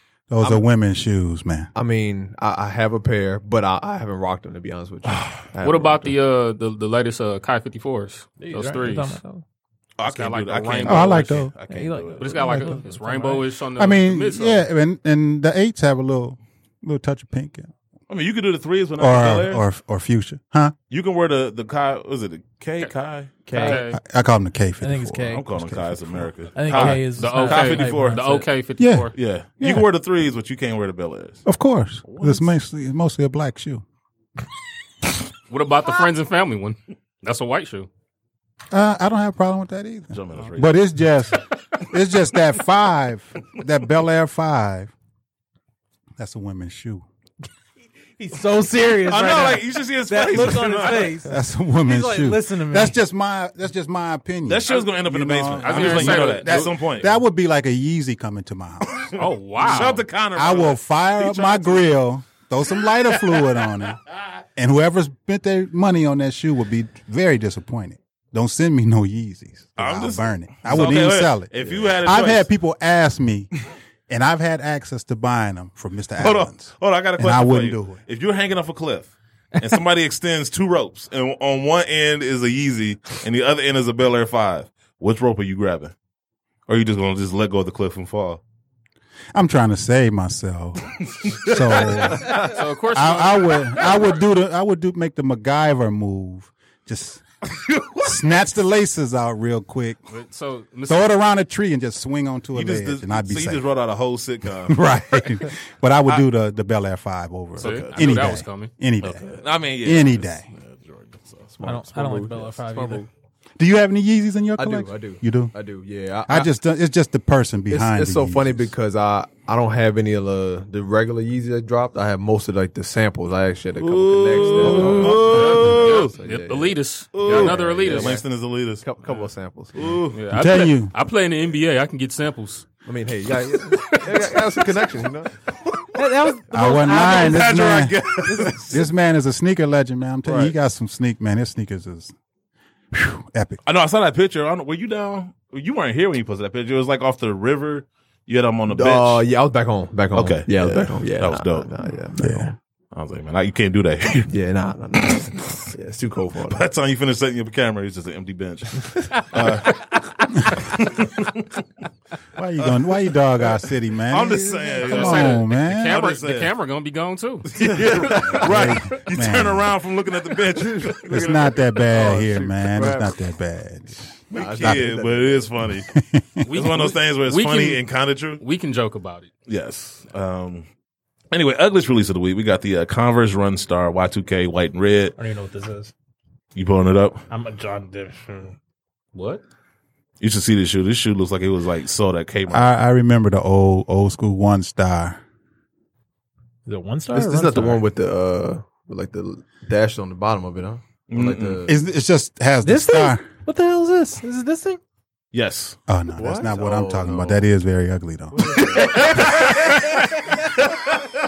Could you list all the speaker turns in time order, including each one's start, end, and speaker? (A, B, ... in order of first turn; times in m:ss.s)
0:00.3-0:01.7 A
0:01.8-0:06.2 B
0:05.1-0:05.5 C
0:05.6-0:09.2 D
0:08.4-0:09.4 E
0:10.0-0:12.7 C
0:10.0-0:11.4 D
0:10.8-0:11.5 A
0:11.7-0:13.4 E
0:12.2-0:14.7 D
0:13.8-0:17.7 A
0:18.1-0:19.6 C
0:19.0-0:20.8 A
0:20.9-0:23.5 C
0:23.5-0:24.0 D
0:23.5-0:23.8 E
0:23.5-0:23.8 B
0:23.9-0:27.0 A
0:24.8-0:25.5 E
0:25.3-0:28.3 C
0:26.6-0:28.5 E
0:26.9-0:29.1 D
0:28.8-0:29.8 A
0:29.1-0:31.4 C
0:31.5-0:33.8 A
0:32.0-0:32.5 C
0:35.5-0:37.9 D
0:38.7-0:44.9 A
0:40.1-0:40.8 C
0:46.2-0:47.0 A
0:48.2-0:53.0 E
0:49.0-0:51.2 C
0:51.3-1:04.0 A
0:54.5-0:57.2 C
0:55.6-0:56.8 D
0:59.0-1:01.9 C
0:59.2-1:00.0 D
1:04.6-1:13.5 A
1:09.8-1:12.5 C
1:14.1-1:18.0 A
1:16.2-1:25.9 C
1:26.7-1:28.4 C
1:29.3-1:37.2 A
1:31.1-1:32.3 C
1:32.2-1:34.2 D
1:37.6-1:38.1 C
1:38.0-1:40.0 A
1:40.1-1:41.1 D
1:40.9-1:43.7 A
1:42.5-1:44.8 C
1:44.7-1:50.5 A
1:47.6-1:48.4 C
1:47.6-1:48.7 D
1:49.0-1:51.5 C
1:51.5-1:53.1 B
1:51.6-1:53.0 E
1:53.6-1:55.6 A
1:54.6-1:56.5 B
1:56.3-1:58.7 A
1:57.7-2:08.3 B
2:03.8-2:06.1 C
2:04.6-2:08.2 D
2:07.1-2:08.8 C
2:08.8-2:10.0 B
2:09.0-2:09.3 D
2:09.8-2:10.2 C
2:10.1-2:12.7 D
2:10.3-2:10.9 A
2:12.8-2:15.3 B
2:13.7-2:14.4 D
2:16.0-2:17.7 E
2:16.5-2:18.0 A
2:17.1-2:18.8 C
2:18.2-2:18.7 E
2:18.7-2:22.1 A
2:20.3-2:20.5 B
2:22.9-2:23.6 A
2:23.6-2:29.2 C
2:28.7-2:32.6 B
2:30.1-2:31.7 C
2:32.2-2:32.5 A
2:32.9-2:34.3 C
2:34.3-2:36.6 B
2:35.1-2:35.7 C
2:36.5-2:41.4 C
2:42.4-2:46.0 A
2:42.6-2:42.9 C
2:44.1-2:46.5 C
2:44.8-2:47.6 D
2:47.5-2:51.6 C
2:47.7-2:48.4 B
2:48.3-2:49.8 A
2:50.5-2:53.2 B
2:51.0-2:54.9 A
2:54.3-2:55.5 B
2:54.3-2:55.9 C
2:55.9-2:56.5 A
2:56.5-2:57.8 D
2:56.5-2:58.4 C
2:58.4-2:59.3 D
2:59.5-3:00.7 C
3:01.3-3:05.2 C
3:05.2-3:05.9 E
3:06.6-3:07.2 C
3:07.3-3:08.6 E
3:09.1-3:09.4 D
3:10.2-3:12.7 C
3:12.5-3:15.2 A
3:16.7-3:17.8 E
3:17.1-3:21.7 B
3:21.1-3:21.6 C
3:21.7-3:23.3 A
3:22.6-3:24.8 E
3:25.3-3:25.8 C
3:25.9-3:29.5 A
3:26.1-3:27.4 B
3:28.3-3:29.6 B
3:30.7-3:31.0 C